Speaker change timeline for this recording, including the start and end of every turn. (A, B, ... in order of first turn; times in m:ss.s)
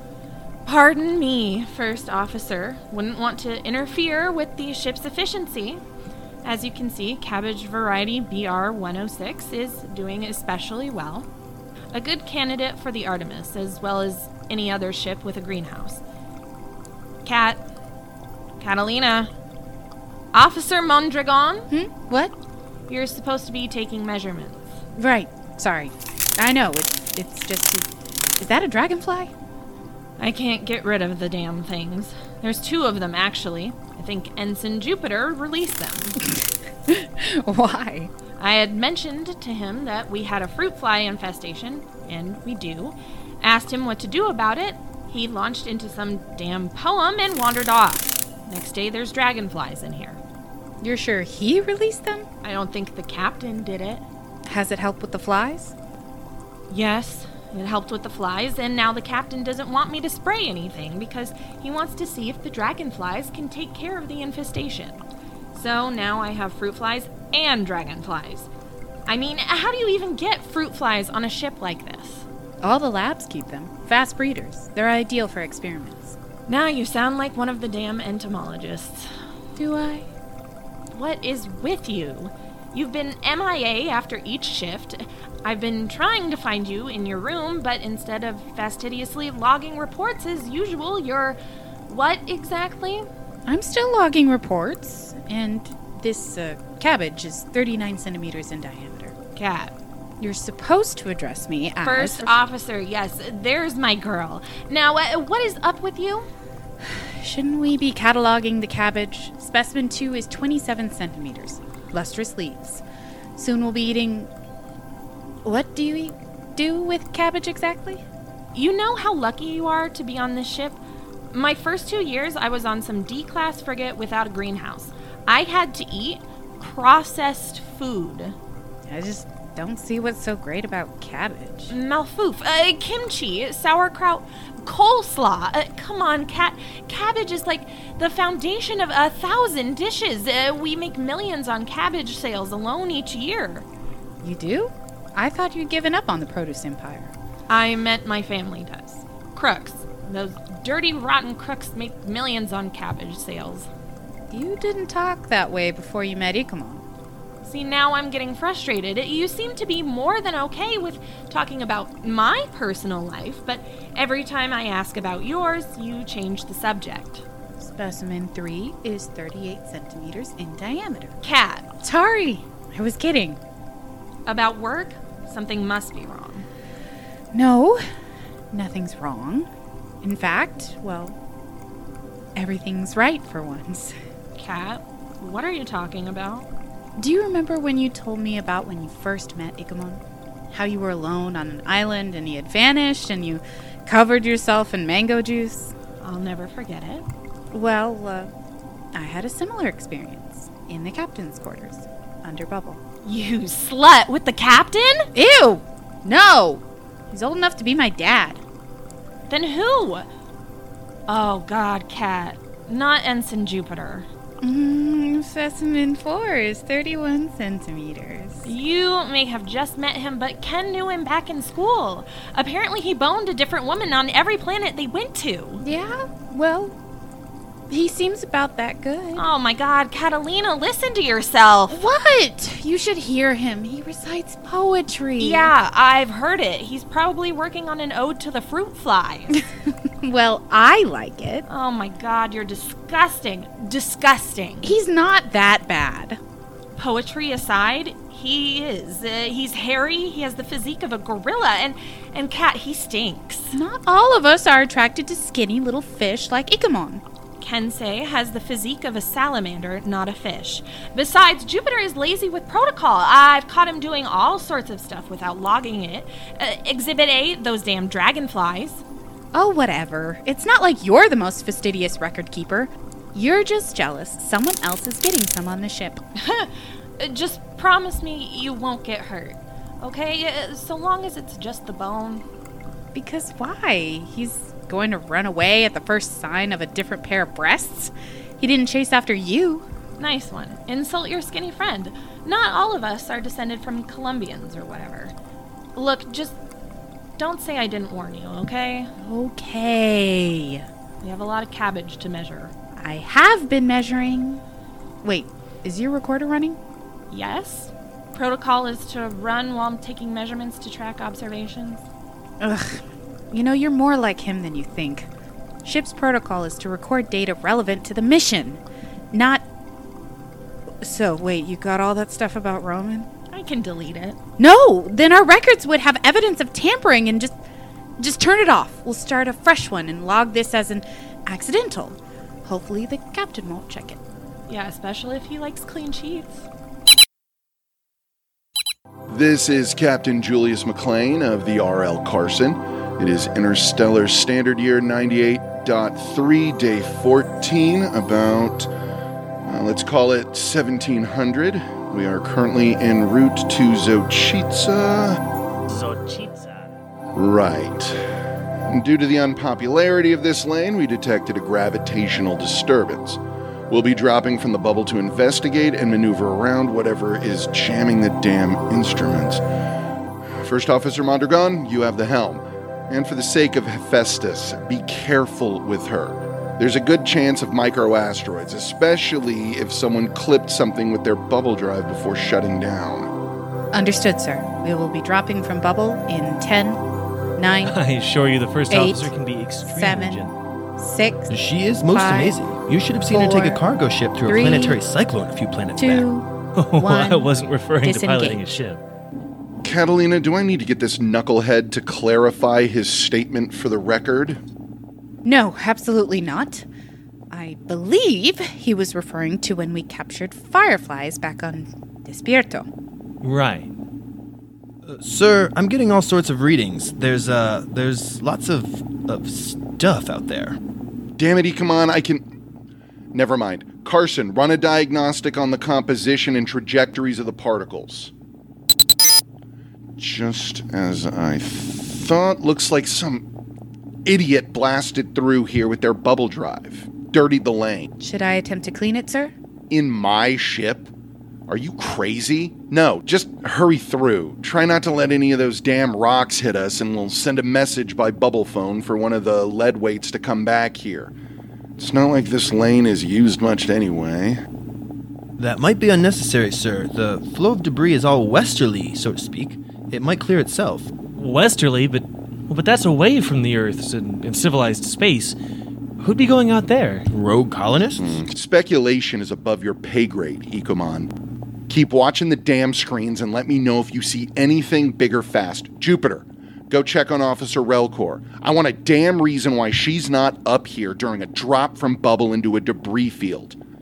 0:00.6-0:05.8 A
0:06.4-0:11.3 A
0:11.9-0:16.0 A
0:17.2-0:17.6 A
0:18.6-0:19.3 A
0:20.3-0:21.7 A
0:21.7-0:22.3 B
0:22.9-0:24.8 A
0:25.0-0:27.9 B
0:28.4-0:29.3 B
0:30.2-0:36.2 A
0:36.2-0:38.1 B
0:38.4-0:50.2 A
0:50.8-0:52.3 B
0:52.4-0:54.0 A
0:54.4-0:55.7 B
0:56.7-1:05.0 A
1:05.5-1:08.5 A
1:09.1-1:12.2 A
1:12.6-1:16.2 B
1:16.5-1:19.1 A
1:19.6-1:20.1 B
1:20.9-1:33.1 A
1:33.4-1:39.1 B
1:39.4-1:39.7 A
1:40.2-1:42.4 B
1:41.8-1:46.3 A
1:47.2-1:52.8 B
1:53.4-1:54.3 B
1:55.4-1:58.0 B
1:58.5-2:00.8 A
2:01.3-2:08.3 A
2:08.9-2:11.7 B
2:11.7-2:23.6 A
2:24.2-2:27.1 B
2:27.5-2:33.7 A
2:34.3-2:36.8 B
2:37.4-2:47.2 A
2:47.6-2:51.2 B
2:51.2-2:51.7 A
2:51.8-2:53.4 B
2:54.2-2:56.4 A
2:57.3-2:57.8 B
2:58.5-2:59.5 B
3:00.0-3:01.2 B
3:02.3-3:04.0 B
3:04.4-3:06.5 A
3:07.0-3:15.7 B
3:16.0-3:17.0 A
3:17.5-3:18.3 B
3:18.9-3:22.8 B
3:23.0-3:25.1 A
3:25.1-3:28.4 B
3:29.3-3:30.1 A
3:31.1-3:34.1 A
3:34.4-3:38.5 B
3:38.4-3:45.6 A
3:45.6-3:46.8 B
3:47.7-3:49.2 B
3:49.2-3:51.8 A
3:51.7-3:55.5 B
3:55.2-3:59.4 A
4:00.0-4:01.4 B
4:01.5-4:04.7 A
4:04.6-4:06.2 B
4:06.8-4:13.5 A
4:13.5-4:17.0 B
4:17.4-4:28.8 A
4:29.3-4:36.0 B
4:36.2-4:42.2 A
4:42.9-4:49.6 B
4:50.0-4:55.1 A
4:55.8-4:56.4 A
4:57.2-4:58.9 A
4:59.0-5:00.6 B
5:01.0-5:02.5 A
5:02.8-5:04.4 B
5:05.0-5:06.6 B
5:07.1-5:11.8 A
5:12.4-5:15.1 B
5:15.6-5:19.4 B
5:20.8-5:23.1 B
5:23.3-5:24.2 A
5:24.4-5:27.4 B
5:28.0-5:34.0 B
5:34.5-5:36.4 A
5:39.1-5:48.7 C
5:49.4-5:55.2 C
5:55.7-5:56.7 D
5:57.1-5:58.0 C
5:58.7-6:09.4 C
6:10.4-6:23.1 C
6:23.7-6:26.8 B
6:27.4-6:27.8 B
6:27.6-6:30.3 D
6:28.7-6:29.1 B
6:29.6-6:31.3 B
6:31.3-6:36.0 E
6:31.9-6:32.4 B
6:33.1-6:33.6 B
6:34.2-6:34.8 B
6:35.8-6:38.4 B
6:36.6-6:38.8 D
6:39.6-6:44.4 C
6:45.2-6:46.6 B
6:47.3-6:52.7 B
6:53.2-6:53.7 D
6:54.8-7:00.6 E
7:01.2-7:02.2 C
7:03.1-7:08.1 C
7:10.0-7:13.2 C
7:14.0-7:17.9 C
7:18.0-7:19.3 B
7:19.7-7:20.9 C
7:21.5-7:31.1 C
7:31.8-7:34.4 C
7:35.4-7:40.9 E
7:41.2-7:45.4 D
7:46.0-7:47.0 D
7:47.1-7:48.2 E
7:48.0-7:51.1 C
7:51.7-8:03.6 C